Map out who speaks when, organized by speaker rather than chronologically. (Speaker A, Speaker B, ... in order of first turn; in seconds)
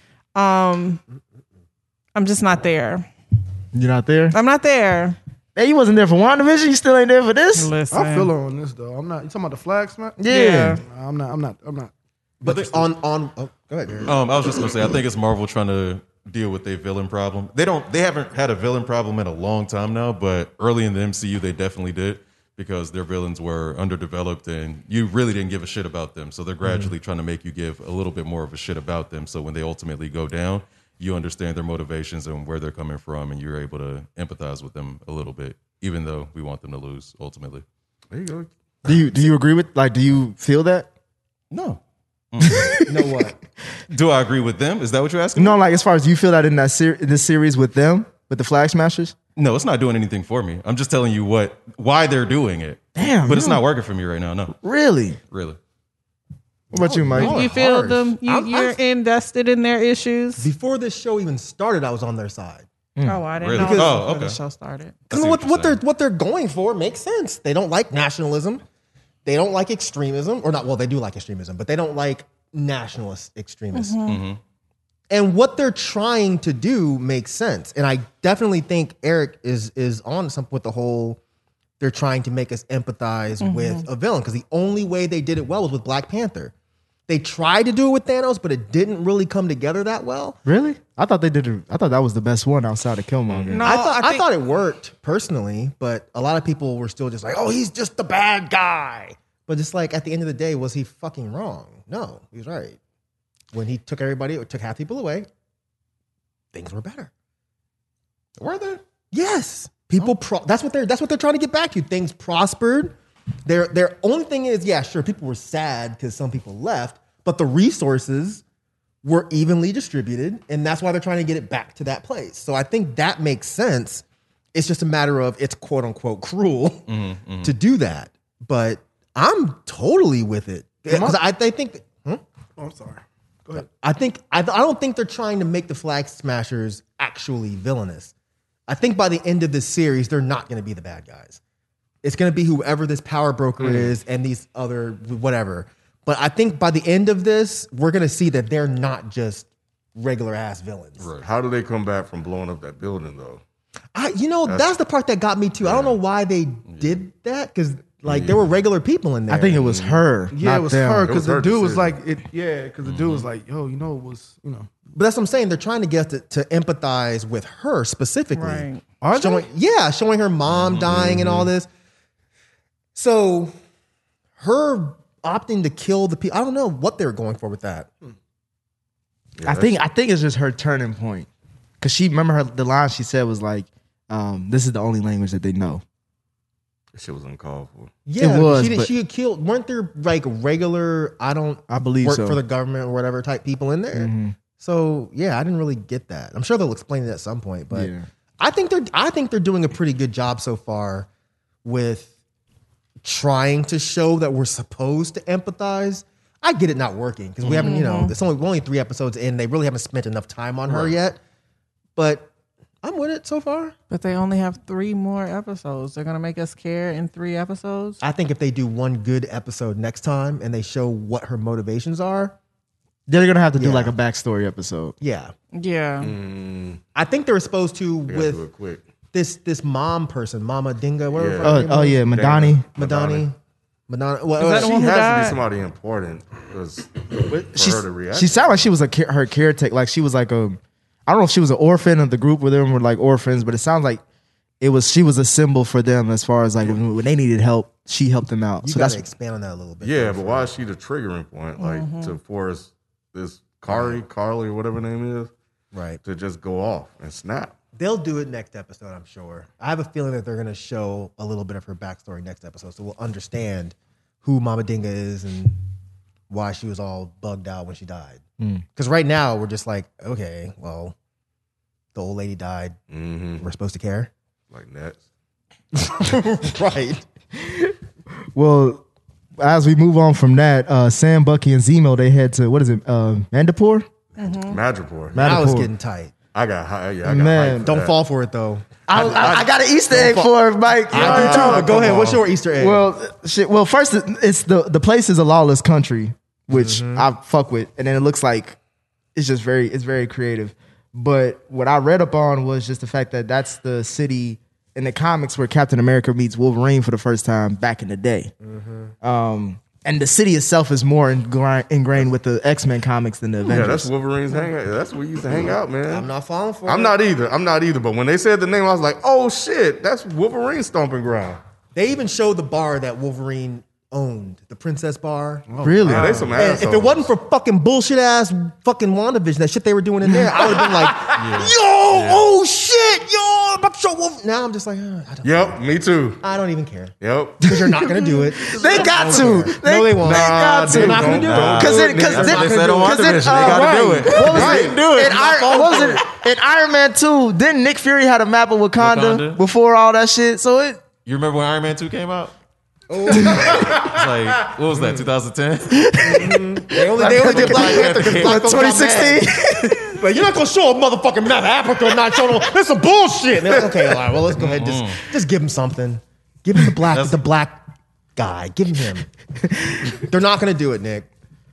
Speaker A: 0.3-1.0, 2.1-3.1, 4.3-5.2, 7.5-8.3, 10.3-10.8, 57.1-60.5, 63.0-65.0, 73.7-74.2, 83.4-83.8, 93.5-94.3, 168.3-168.9, 207.6-208.1, 213.9-218.0, 225.5-226.1, 234.4-235.4, 251.6-252.2, 284.2-284.6
Speaker B: 3.7-4.3, 5.5-7.7, 10.2-10.8, 38.8-40.9, 42.4-43.3, 45.4-49.1, 53.0-53.6, 54.6-55.2, 56.7-58.1, 63.0-63.2, 90.4-93.6, 159.3-161.1, 179.4-181.3, 181.8-185.8, 188.2-188.9, 191.7-192.4, 193.9-194.3, 197.7-198.1, 223.1-224.9, 231.4-232.6, 237.5-244.0, 244.6-249.1, 277.4-277.7, 278.3-278.8, 279.4-283.9, 285.1-285.7, 287.0-287.7, 288.9-292.0, 292.6-298.6, 299.1-308.3, 309.0-313.9, 325.6-326.3, 338.4-350.8, 353.2-353.4, 355.7-360.0, 369.4-370.0
Speaker C: 7.9-11.9, 130.9-131.2, 132.6-133.7, 160.3-164.7, 169.0-169.5, 325.5-326.3, 338.6-339.1
Speaker D: 12.4-14.1, 42.9-43.3, 56.7-58.7, 60.4-62.7, 63.5-64.0, 65.1-68.6, 69.2-74.0, 75.1-81.2, 81.8-86.5, 87.1-90.4, 93.6-102.8, 103.5-105.3, 106.5-107.1, 108.4-112.9, 113.5-118.4, 119.0-126.9, 127.4-132.2, 133.5-138.1, 138.7-141.4, 142.0-151.1, 153.9-159.7, 164.9-171.7, 172.9-173.5, 174.4-177.9, 188.1-201.1, 201.6-202.1, 203.0-211.2, 211.9-212.3, 212.8-213.7, 218.0-222.3, 223.6-223.9, 225.0-225.3, 226.9-228.4, 229.1-232.0, 232.8-233.3, 233.9-234.7, 248.6-250.5, 253.7-254.0, 255.7-256.0, 257.7-265.6, 266.3-268.2, 268.7-270.9, 271.9-272.7, 273.4-274.1, 275.8-277.0, 285.2-286.1, 287.6-288.8, 289.9-290.3, 290.9-292.8, 296.5-297.1, 308.4-308.9, 315.9-317.0, 321.7-325.5, 326.3-335.6, 336.2-346.0, 352.9-353.8, 356.0-359.3, 359.9-367.6, 368.1-369.1, 370.1-371.1
Speaker E: 12.4-12.9, 14.1-37.6, 41.5-41.8, 42.3-42.8, 43.9-45.6, 49.4-54.5, 55.3-55.6, 63.4-64.4, 65.1-65.8, 74.0-74.4, 126.9-127.5, 151.0-151.3, 156.7-157.0, 162.8-163.3, 331.1-332.3, 341.1-344.7, 348.8-349.4, 351.0-352.3, 353.1-356.3, 357.0-358.6, 364.4-365.0, 366.9-367.2
Speaker F: 38.1-38.5, 93.3-93.6, 143.6-143.9, 151.2-153.4, 155.6-156.0, 158.1-158.4, 159.6-160.0, 161.0-161.9, 170.5-171.5, 179.4-179.8, 186.9-187.9, 210.7-210.9, 226.0-226.8, 228.1-228.8, 231.1-233.2, 234.4-238.5, 249.8-255.3, 256.0-257.5, 272.9-273.4, 274.5-275.0, 284.2-285.5, 286.3-287.9, 288.9-289.5, 290.9-292.2, 313.4-316.1, 316.6-321.4, 325.8-327.1, 335.2-336.2, 337.0-337.4, 340.0-344.9, 363.5-364.1